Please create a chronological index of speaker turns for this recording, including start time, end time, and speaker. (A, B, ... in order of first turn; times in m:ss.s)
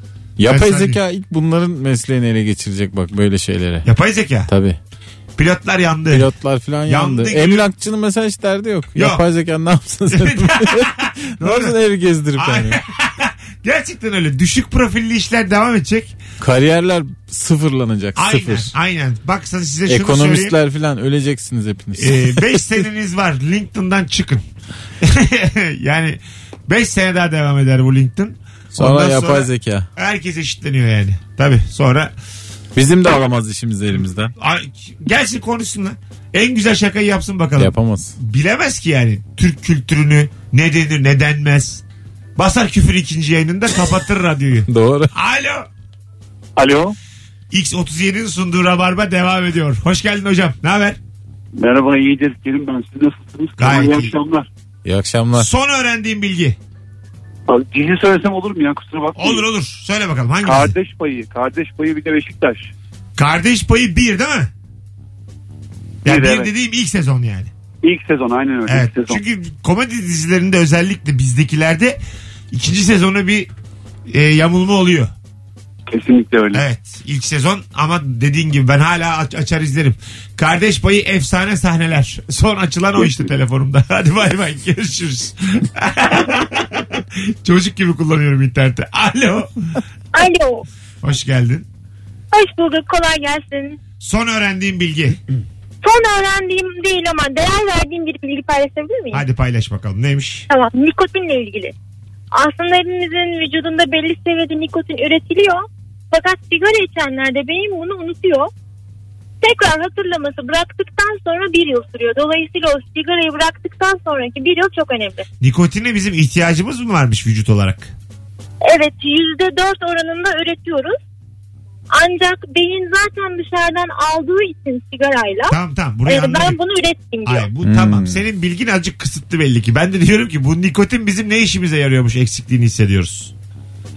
0:00.4-0:03.9 A
0:00.4-0:01.0 B
0:03.8-0:04.5 B
0:04.5-0:04.8 A
0:05.4-0:06.3 B
0:06.1-0:12.8 A
0:06.9-0:07.7 B
0:08.9-0:09.2 B
0:10.1-0:11.8 B
0:12.4-0:16.2 B
0:16.4-0:18.7 A
0:18.2-0:20.6 B
0:19.9-0:22.6 A
0:22.0-0:24.4 B
0:25.0-0:32.1 B
0:28.7-0:29.9 A
0:32.7-0:34.3 A
0:34.4-0:41.8 B
0:37.6-0:38.2 A
0:42.4-0:45.7 B
0:44.7-0:45.1 A
0:46.6-0:46.9 C
0:47.5-0:51.0 B
0:51.6-0:54.5 C
0:53.6-0:54.1 B
0:54.8-0:55.5 A
0:55.4-0:56.6 B
0:57.5-0:59.4 C
0:59.2-1:00.7 B
1:00.4-1:02.7 C
1:03.2-1:04.5 B
1:06.0-1:06.5 C
1:06.0-1:07.5 B
1:07.8-1:09.2 C
1:08.7-1:12.0 B
1:12.5-1:13.5 B
1:14.1-1:15.1 B
1:15.9-1:16.6 C
1:16.5-1:29.8 B
1:30.1-1:30.6 D
1:31.0-1:31.7 B
1:32.3-1:33.8 D
1:34.0-1:35.2 B
1:35.8-1:39.2 D
1:39.1-1:40.5 B
1:40.5-1:41.7 D
1:42.3-1:48.5 D
1:49.4-1:55.2 D
1:55.4-1:57.9 B
1:58.6-2:01.0 D
2:02.0-2:05.5 D
2:05.5-2:06.6 B
2:06.0-2:07.5 D
2:07.2-2:13.3 B
2:07.6-2:08.2 A